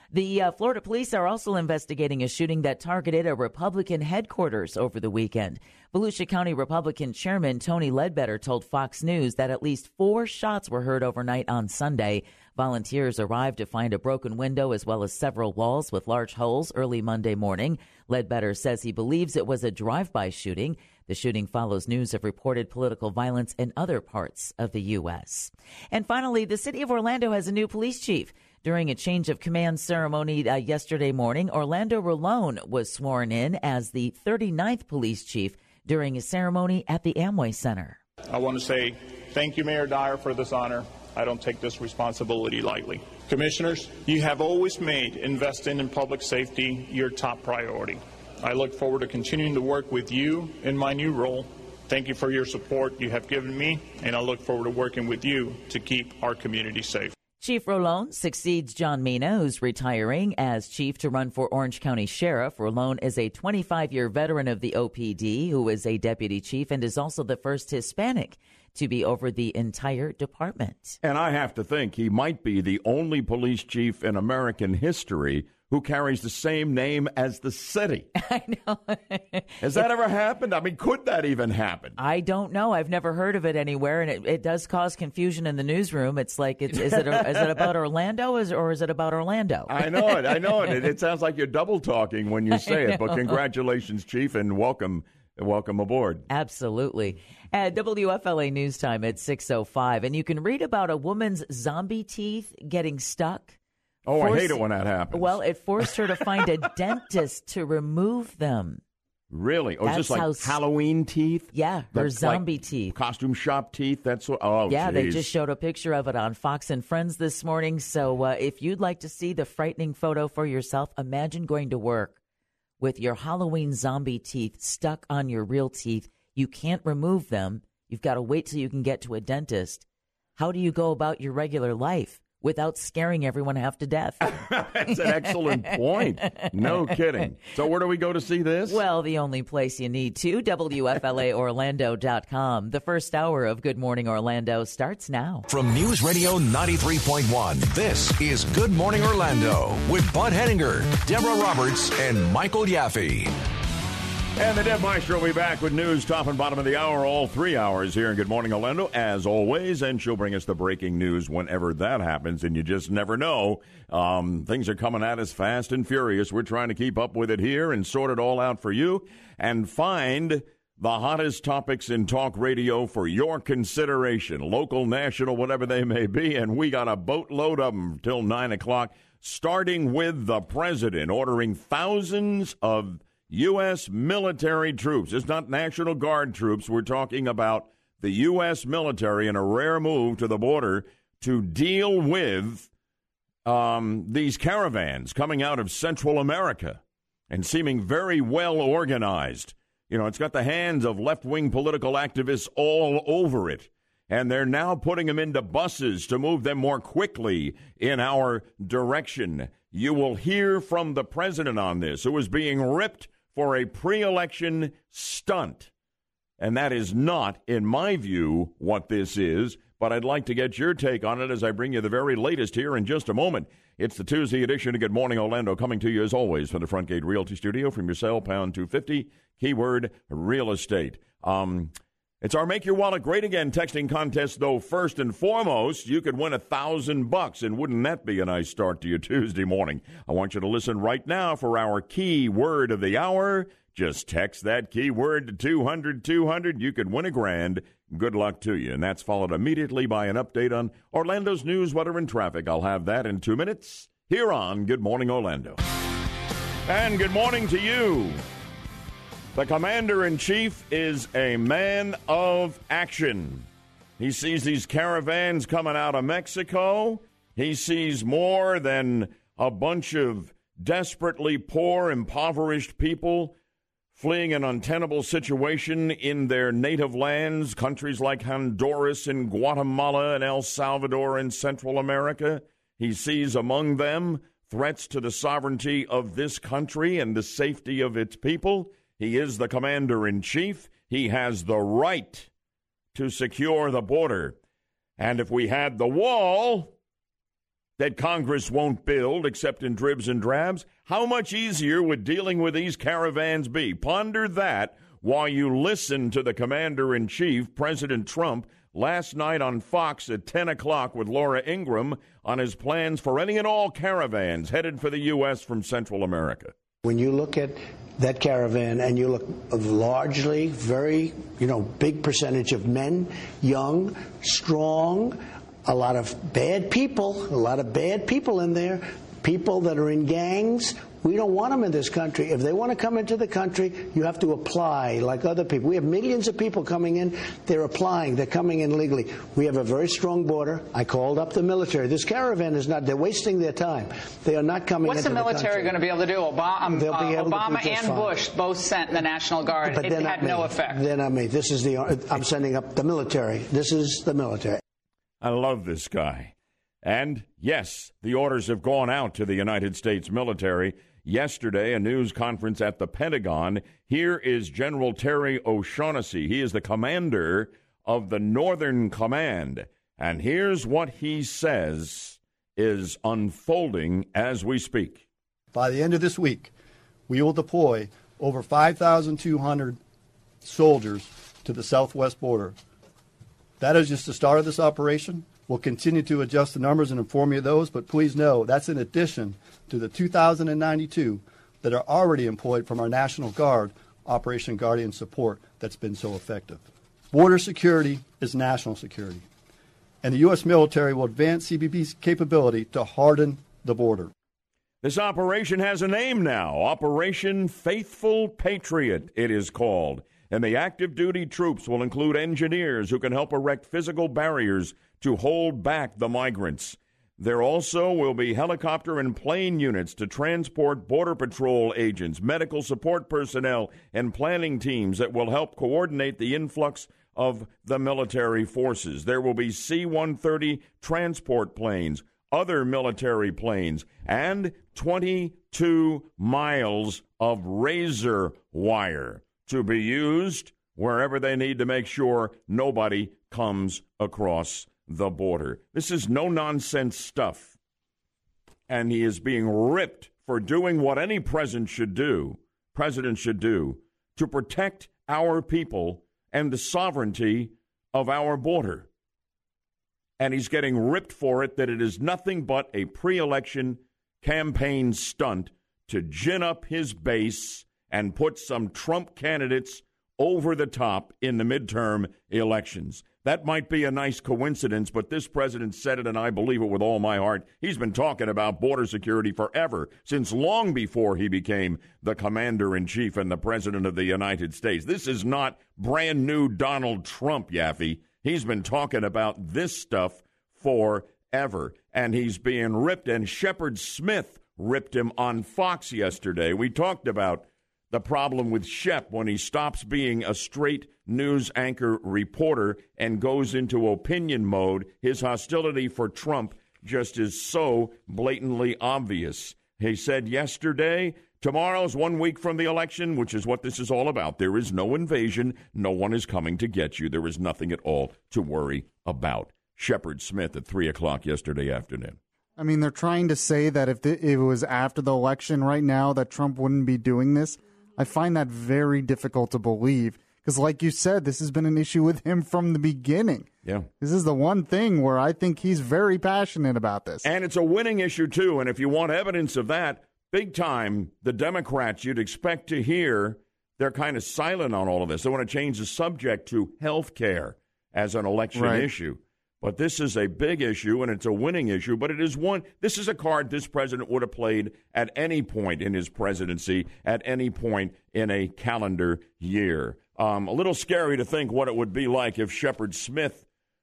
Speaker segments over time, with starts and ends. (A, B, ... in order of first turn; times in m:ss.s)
0:00.1-0:38.0 A
0:38.3-0:57.1 B
0:57.4-1:11.0 A
1:11.0-1:18.1 C
1:18.2-1:19.8 A
1:19.6-1:22.0 C
1:22.0-1:30.9 A
1:29.7-1:36.3 C
1:32.5-1:33.4 A
1:36.3-1:43.6 A
1:44.1-1:45.4 C
1:44.2-1:48.8 A
1:49.3-1:55.2 C
1:49.8-1:50.6 A
1:51.5-1:52.9 A
1:54.7-2:02.2 A
2:02.8-2:09.8 A
2:10.4-2:15.6 A
2:14.2-2:18.8 C
2:16.2-2:16.8 A
2:18.7-2:25.5 A
2:25.5-2:33.3 D
2:34.4-3:12.7 C
3:13.5-3:35.7 C
3:36.4-4:15.6 C
4:16.7-4:18.2 C
4:19.4-4:23.5 C
4:24.0-4:33.4 C
4:33.9-4:52.3 C
4:52.9-4:54.4 C
4:55.0-4:56.7 C
4:57.8-5:16.5 C
5:16.8-5:45.8 E
5:44.8-5:50.8 F
5:46.7-5:48.2 E
5:49.6-5:54.6 E
5:55.2-6:15.1 C
6:15.5-6:16.5 G
6:17.1-6:19.8 G
6:20.4-6:22.6 G
6:23.6-6:39.2 G
6:40.0-6:44.1 G
6:44.8-7:27.5 C
7:28.7-7:38.9 C
7:40.2-8:42.2 C
8:42.6-8:53.5 H
8:54.0-8:57.3 H
8:57.2-9:23.4 C
9:08.5-9:08.9 H